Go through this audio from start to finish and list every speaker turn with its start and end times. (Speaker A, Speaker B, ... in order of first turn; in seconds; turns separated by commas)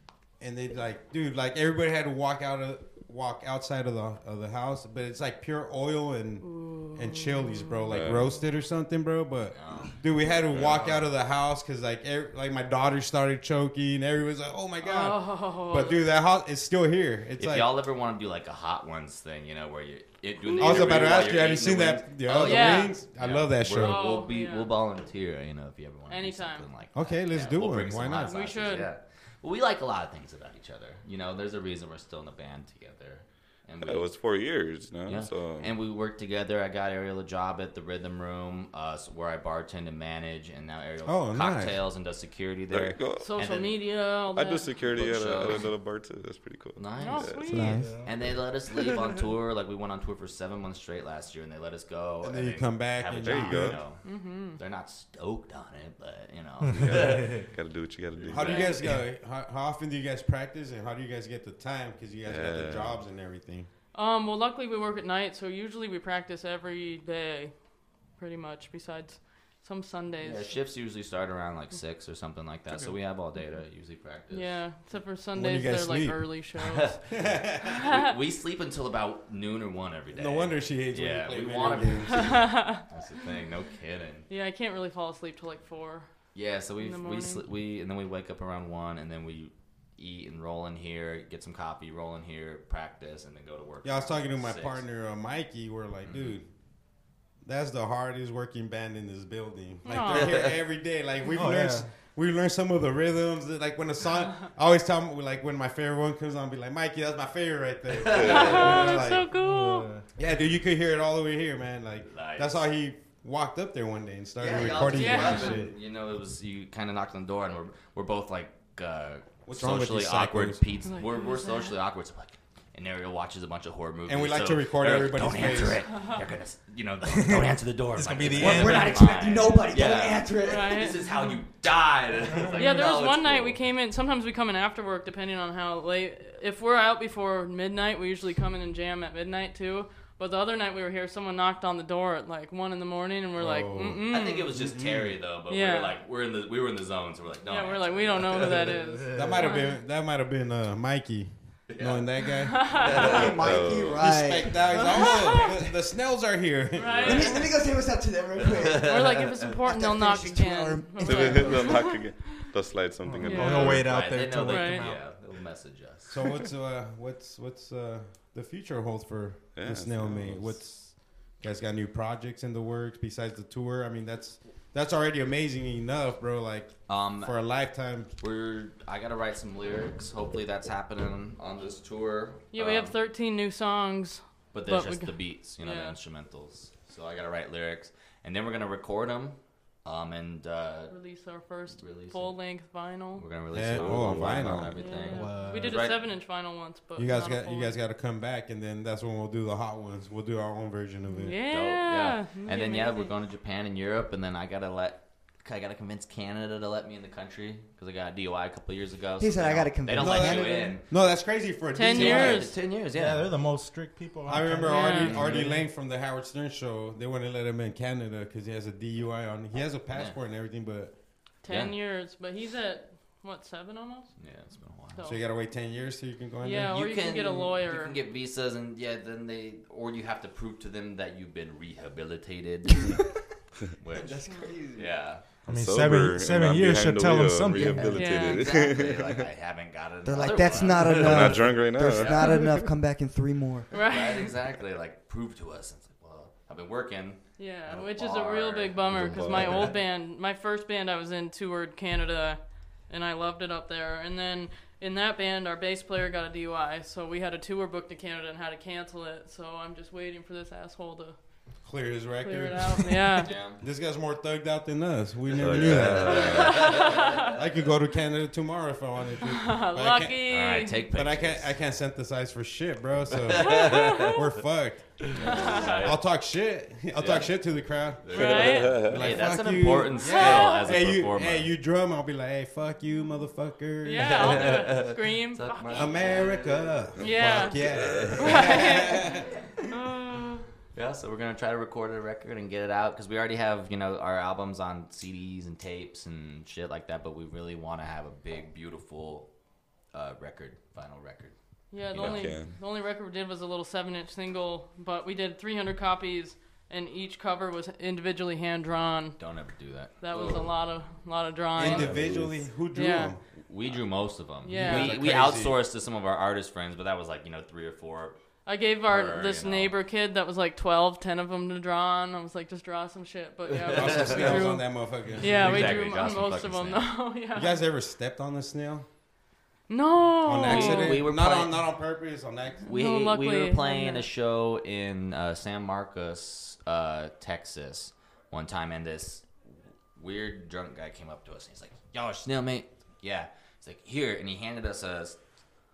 Speaker A: 0.4-17.7, Speaker B: 6.4-8.0, Speaker C: 7.9-8.3, Speaker D: 9.5-11.1, Speaker B: 14.8-16.1, Speaker D: 17.4-34.1, Speaker B: 20.4-21.0, Speaker A: 20.6-24.0, Speaker B: 22.4-22.9, Speaker B: 23.8-24.7, Speaker B: 26.1-26.7, Speaker A: 26.9-28.4, Speaker B: 28.2-28.9, Speaker C: 33.8-35.7, Speaker D: 35.1-43.8, Speaker A: 41.0-41.8, Speaker C: 42.7-43.3, Speaker B: 43.2-44.7, Speaker C: 44.3-47.7, Speaker D: 44.9-45.7, Speaker D: 46.8-57.5, Speaker B: 47.0-47.9, Speaker E: 47.5-48.1, Speaker F: 47.5-48.0, Speaker A: 52.2-53.8, Speaker C: 53.2-53.8, Speaker B: 54.0-54.6, Speaker E: 56.7-57.5, Speaker C: 56.8-58.7, Speaker A: 58.2-63.7, Speaker D: 58.2-58.8, Speaker B: 58.5-58.7, Speaker C: 62.3-63.0, Speaker B: 63.9-67.5, Speaker B: 68.2-70.6, Speaker D: 70.2-74.5, Speaker B: 74.3-77.0, Speaker A: 75.3-76.2, Speaker D: 76.6-77.0, Speaker A: 77.1-77.8, Speaker D: 77.6-84.3, Speaker B: 77.7-78.1, Speaker A: 80.1-82.5, Speaker B: 82.2-82.8, Speaker B: 84.3-86.1, Speaker D: 86.3-94.8, Speaker B: 86.8-87.4, Speaker A: 93.8-96.5, Speaker D: 96.0-96.4, Speaker A: 97.4-109.3, Speaker B: 99.8-100.5, Speaker D: 100.0-100.5, Speaker E: 101.3-101.9, Speaker D: 107.9-108.9, Speaker B: 108.2-109.9, Speaker E: 109.3-110.0, Speaker A: 110.2-115.7, Speaker D: 112.0-112.7, Speaker D: 114.4-133.6, Speaker B: 114.9-115.6, Speaker A: 119.5-120.6, Speaker B: 120.9-121.8, Speaker A: 124.1-125.9, Speaker B: 125.9-126.2, Speaker E: 127.1-129.1, Speaker F: 128.3-130.9, Speaker B: 130.4-131.4, Speaker B: 132.6-144.5, Speaker A: 143.4-145.2, Speaker D: 144.1-148.8, Speaker B: 145.5-146.0, Speaker B: 147.5-149.8, Speaker E: 149.0-149.3, Speaker A: 149.1-153.3, Speaker D: 151.7-153.7, Speaker B: 152.5-153.3, Speaker F: 152.9-155.6, Speaker C: 153.3-154.1, Speaker A: 153.9-157.2, Speaker B: 154.7-155.6, Speaker B: 156.7-157.6, Speaker D: 156.8-157.6, Speaker F: 157.0-162.0, Speaker D: 158.4-159.5, Speaker B: 158.8-162.5, Speaker C: 161.0-163.9, Speaker E: 163.0-165.1, Speaker B: 163.2-163.8, Speaker D: 163.4-166.2, Speaker B: 164.5-164.9, Speaker A: 166.1-178.1, Speaker C: 169.6-170.6, Speaker D: 176.9-177.3, Speaker D: 178.2-182.9, Speaker B: 182.5-186.0, Speaker D: 184.5-190.9, Speaker B: 190.9-193.2, Speaker D: 191.8-192.4, Speaker D: 193.2-196.0, Speaker A: 193.5-194.8, Speaker C: 193.7-194.7, Speaker B: 194.8-197.8, Speaker E: 195.1-195.8, Speaker A: 197.0-201.4, Speaker B: 201.1-203.1, Speaker D: 201.4-211.1, Speaker F: 209.2-210.8, Speaker A: 210.0-212.5, Speaker B: 211.7-212.6, Speaker D: 211.8-213.4, Speaker E: 212.8-215.7, Speaker A: 214.3-220.9, Speaker B: 214.7-215.2, Speaker D: 215.1-215.4, Speaker D: 219.9-220.2, Speaker B: 221.4-224.2, Speaker D: 221.5-221.8, Speaker D: 224.2-225.0, Speaker B: 224.9-225.2, Speaker A: 225.0-226.7, Speaker B: 226.4-228.0, Speaker D: 226.6-233.1, Speaker D: 233.8-235.2, Speaker F: 233.9-235.0, Speaker B: 234.3-234.5, Speaker E: 235.5-238.2, Speaker C: 235.5-239.2, Speaker B: 237.9-238.7, Speaker D: 238.2-242.4, Speaker F: 240.1-243.7, Speaker C: 240.9-242.4, Speaker B: 243.7-244.3, Speaker D: 243.8-249.7, Speaker B: 247.4-261.2, Speaker C: 248.9-249.7, Speaker A: 261.6-270.2, Speaker B: 262.2-263.3, Speaker D: 263.2-263.6, Speaker C: 265.4-266.6, Speaker D: 265.4-267.4, Speaker B: 266.1-267.3, Speaker B: 269.3-270.8, Speaker D: 270.3-271.6, Speaker A: 270.9-284.6, Speaker D: 273.3-274.1, Speaker B: 273.4-274.2, Speaker D: 275.1-276.0, Speaker B: 275.2-275.9, Speaker D: 277.0-281.5, Speaker B: 278.1-279.0, Speaker C: 278.1-279.1, Speaker B: 279.9-280.7, Speaker B: 283.8-286.0, Speaker D: 283.9-288.6, Speaker A: 285.7-289.3, Speaker B: 287.0-287.6, Speaker B: 288.2-290.5, Speaker D: 290.7-299.3, Speaker D: 299.9-302.4, Speaker B: 301.7-309.2, Speaker C: 302.0-302.5, Speaker D: 309.2-310.5, Speaker B: 310.0-311.9, Speaker A: 311.6-313.2, Speaker C: 311.7-312.2, Speaker B: 312.7-313.1, Speaker D: 313.5-318.2, Speaker B: 314.4-315.0, Speaker A: 314.5-315.6, Speaker B: 318.5-327.6, Speaker D: 318.9-319.8, Speaker D: 323.5-324.6, Speaker A: 323.7-325.9, Speaker D: 325.2-326.9, Speaker A: 327.4-328.9, Speaker B: 329.7-331.0, Speaker A: 330.2-332.6, Speaker D: 330.4-331.6, Speaker B: 332.6-334.1, Speaker D: 332.7-339.3, Speaker D: 340.0-345.2